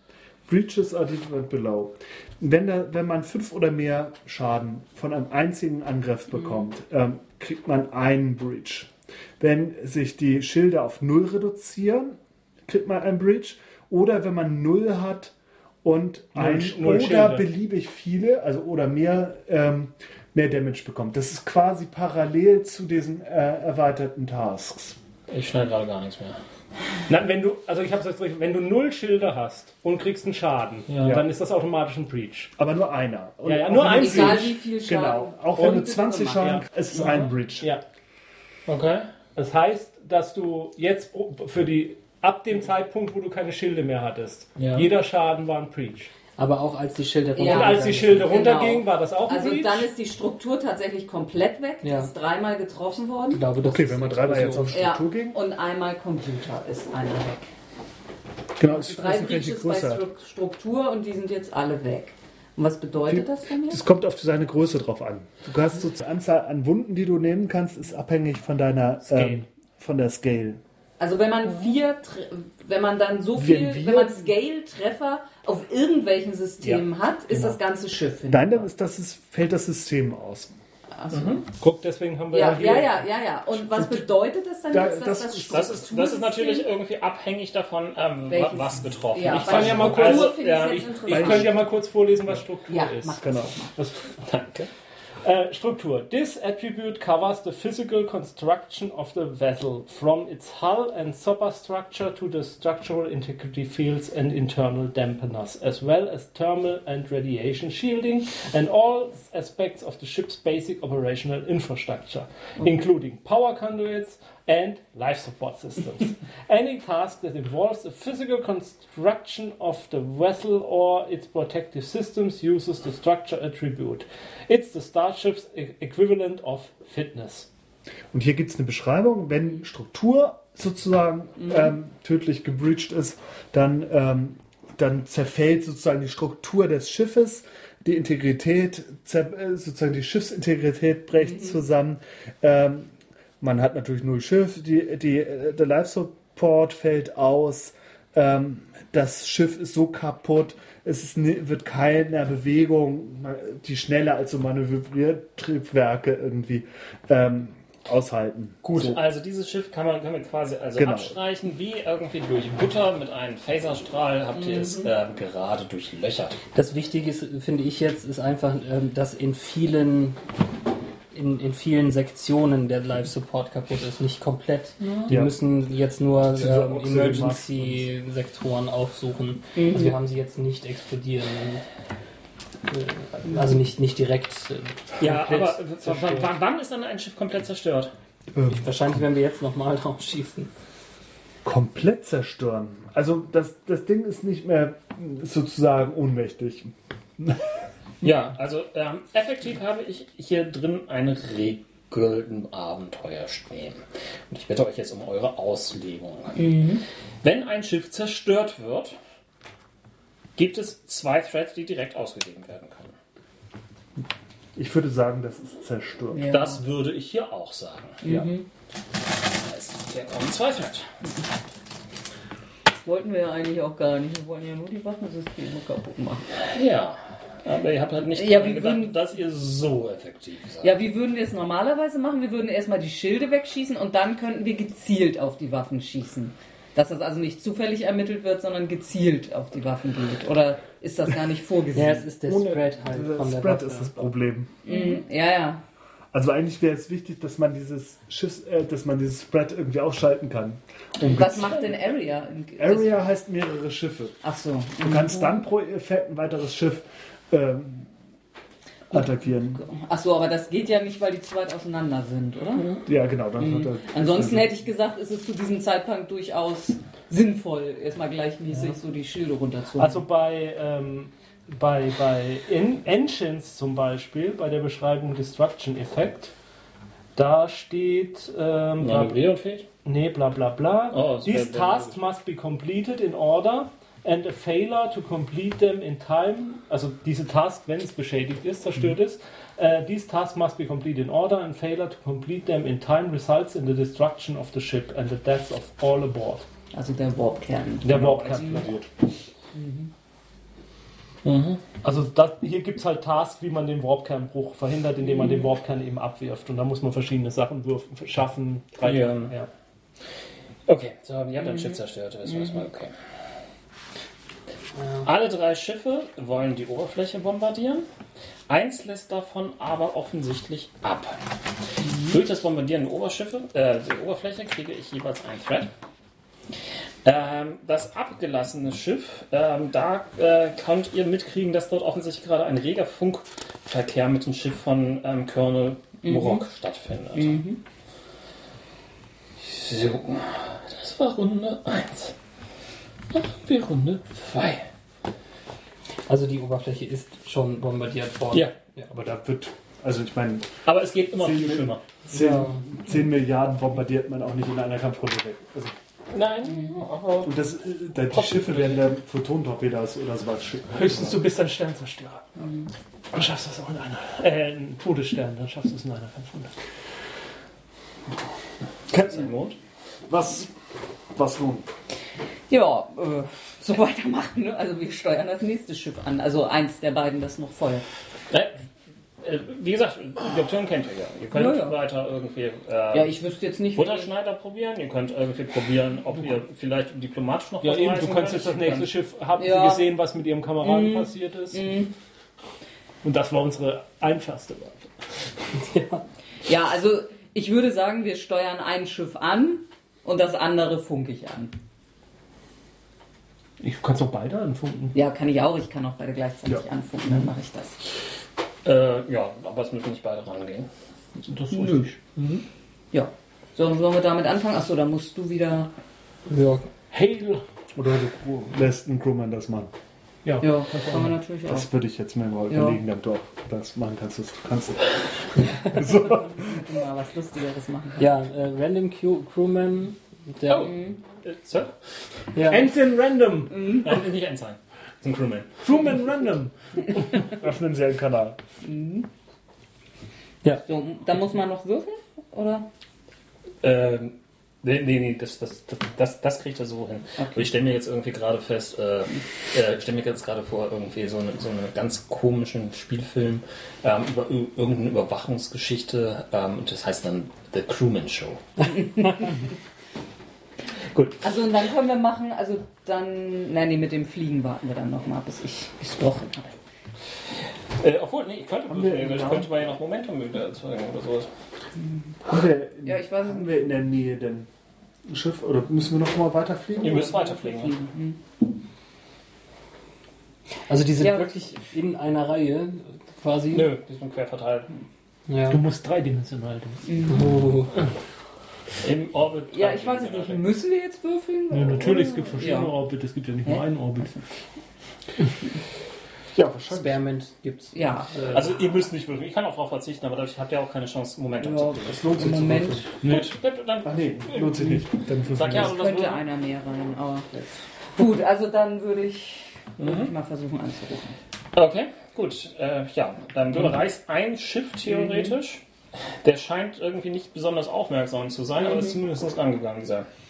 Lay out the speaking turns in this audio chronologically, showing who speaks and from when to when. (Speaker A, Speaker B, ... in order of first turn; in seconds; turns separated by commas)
Speaker A: 0.5-25.0, Speaker B: 16.4-17.5, Speaker C: 25.3-26.4, Speaker B: 27.1-32.5, Speaker C: 30.9-31.2, Speaker A: 32.6-37.7, Speaker B: 33.5-34.6, Speaker D: 33.8-36.4, Speaker B: 36.4-37.8, Speaker C: 38.7-39.1, Speaker B: 39.3-46.1, Speaker C: 44.6-44.9, Speaker E: 46.4-48.3, Speaker D: 47.3-53.4, Speaker B: 47.4-49.9, Speaker E: 51.8-52.1, Speaker E: 53.3-54.8, Speaker A: 53.6-55.4, Speaker D: 54.7-57.5, Speaker A: 58.6-60.0, Speaker D: 58.6-63.8, Speaker A: 63.0-70.6, Speaker D: 71.0-78.6, Speaker A: 73.3-74.2, Speaker A: 77.3-77.6, Speaker A: 78.3-80.5, Speaker D: 81.0-81.4, Speaker C: 81.1-81.4, Speaker B: 81.6-83.0, Speaker D: 82.3-86.7, Speaker A: 83.6-84.0, Speaker A: 84.7-85.8, Speaker C: 85.5-91.4, Speaker D: 88.3-91.6, Speaker B: 89.3-93.2, Speaker A: 91.1-91.5, Speaker D: 92.7-93.8, Speaker A: 93.2-93.5, Speaker B: 93.8-94.1, Speaker C: 94.2-94.7, Speaker B: 95.2-127.5, Speaker A: 128.1-159.0, Speaker D: 131.4-131.7, Speaker C: 158.6-166.4, Speaker A: 160.8-161.1, Speaker D: 164.3-164.9, Speaker E: 166.5-170.2, Speaker E: 171.1-181.6, Speaker A: 175.1-175.3, Speaker A: 176.3-177.8, Speaker D: 179.6-179.9, Speaker E: 182.7-186.3, Speaker C: 185.0-187.9, Speaker A: 188.3-188.8, Speaker E: 188.5-190.5, Speaker A: 191.4-197.4, Speaker C: 198.0-206.4, Speaker D: 206.3-206.8, Speaker C: 207.2-209.0, Speaker C: 210.3-212.9, Speaker A: 214.6-216.3, Speaker D: 216.1-216.6, Speaker C: 216.3-218.0, Speaker D: 218.0-218.4, Speaker C: 219.2-220.9, Speaker D: 222.8-226.3, Speaker C: 226.5-230.7, Speaker D: 228.1-229.0, Speaker D: 230.6-242.1, Speaker E: 241.7-243.9, Speaker A: 242.2-244.6, Speaker D: 244.6-245.6, Speaker A: 246.1-251.7, Speaker D: 251.0-252.9, Speaker A: 252.6-254.2, Speaker D: 254.2-255.3, Speaker A: 254.8-257.9, Speaker A: 258.9-259.6, Speaker D: 259.6-262.8, Speaker A: 262.9-264.5, Speaker D: 263.4-270.0, Speaker B: 269.8-276.3, Speaker B: 277.1-279.2, Speaker C: 278.8-279.6, Speaker B: 279.8-296.4, Speaker C: 280.9-281.9, Speaker D: 296.7-298.6, Speaker B: 297.8-298.7, Speaker A: 297.9-298.9, Speaker D: 299.5-299.9, Speaker C: 301.2-301.6, Speaker B: 301.8-309.5, Speaker C: 308.8-309.4, Speaker C: 310.7-312.9, Speaker C: 315.0-317.9, Speaker C: 318.5-321.2, Speaker C: 321.8-325.7, Speaker D: 321.9-322.1, Speaker C: 327.0-337.4, Speaker D: 336.0-336.4, Speaker D: 337.1-337.6, Speaker C: 339.4-342.1, Speaker C: 343.1-344.6, Speaker E: 346.1-348.9, Speaker A: 348.9-350.5, Speaker C: 350.6-351.8, Speaker A: 351.2-355.7, Speaker E: 352.1-352.6, Speaker C: 356.1-357.3, Speaker A: 357.2-361.2, Speaker C: 358.3-358.7, Speaker B: 360.7-362.3, Speaker D: 362.4-362.7, Speaker B: 363.1-366.5, Speaker A: 368.9-369.3, Speaker C: 368.9-369.6, Speaker A: 370.1-370.5, Speaker A: 371.1-371.7, Speaker D: 372.5-377.8, Speaker C: 378.3-378.6, Speaker C: 379.2-383.1, Speaker D: 381.3-381.8, Speaker D: 382.9-384.1, Speaker C: 383.7-389.0, Speaker B: 387.6-391.7, Speaker D: 389.4-389.9, Speaker D: 390.6-391.9, Speaker B: 393.0-394.9, Speaker E: 395.6-396.0, Speaker D: 396.4-401.5, Speaker B: 403.6-405.0, Speaker D: 404.9-407.8, Speaker C: 408.6-410.7, Speaker B: 411.2-412.4, Speaker D: 411.5-411.9, Speaker D: 412.9-415.7, Speaker E: 416.3-416.7, Speaker B: 416.9-417.4, Speaker A: 417.7-419.7, Speaker B: 420.2-421.2, Speaker D: 420.4-421.7, Speaker A: 421.5-426.6, Speaker D: 422.5-422.8, Speaker D: 425.7-428.0, Speaker E: 428.0-430.7, Speaker C: 430.5-431.7, Speaker E: 432.3-432.6, Speaker B: 432.5-433.8, Speaker D: 433.5-434.0, Speaker C: 433.6-435.6, Speaker B: 435.6-437.2, Speaker A: 437.1-438.4, Speaker D: 438.6-439.1, Speaker D: 440.6-442.6, Speaker C: 443.6-459.3, Speaker D: 458.9-459.3, Speaker C: 460.9-461.2, Speaker D: 461.2-466.6, Speaker C: 467.8-471.3, Speaker A: 468.7-469.5, Speaker A: 472.3-474.5, Speaker D: 472.8-473.5, Speaker A: 475.1-477.1, Speaker C: 476.8-477.8, Speaker D: 477.0-478.2, Speaker E: 480.7-483.7, Speaker D: 481.0-481.3, Speaker C: 483.5-484.7, Speaker E: 485.3-485.6, Speaker B: 485.5-486.9, Speaker D: 486.9-487.3, Speaker E: 487.1-487.7, Speaker C: 488.8-490.4, Speaker D: 489.5-492.8, Speaker B: 491.5-494.1, Speaker D: 493.4-494.2, Speaker A: 496.3-497.0, Speaker E: 496.7-498.5, Speaker D: 497.7-498.4, Speaker C: 498.3-502.3, Speaker D: 501.4-502.9, Speaker A: 501.9-502.9, Speaker C: 503.0-504.6, Speaker B: 503.0-503.3, Speaker A: 503.8-505.8, Speaker C: 505.3-506.2, Speaker D: 505.6-511.2, Speaker C: 509.8-510.1, Speaker C: 511.5-515.6, Speaker D: 514.9-515.3, Speaker C: 516.2-520.1, Speaker D: 518.6-519.0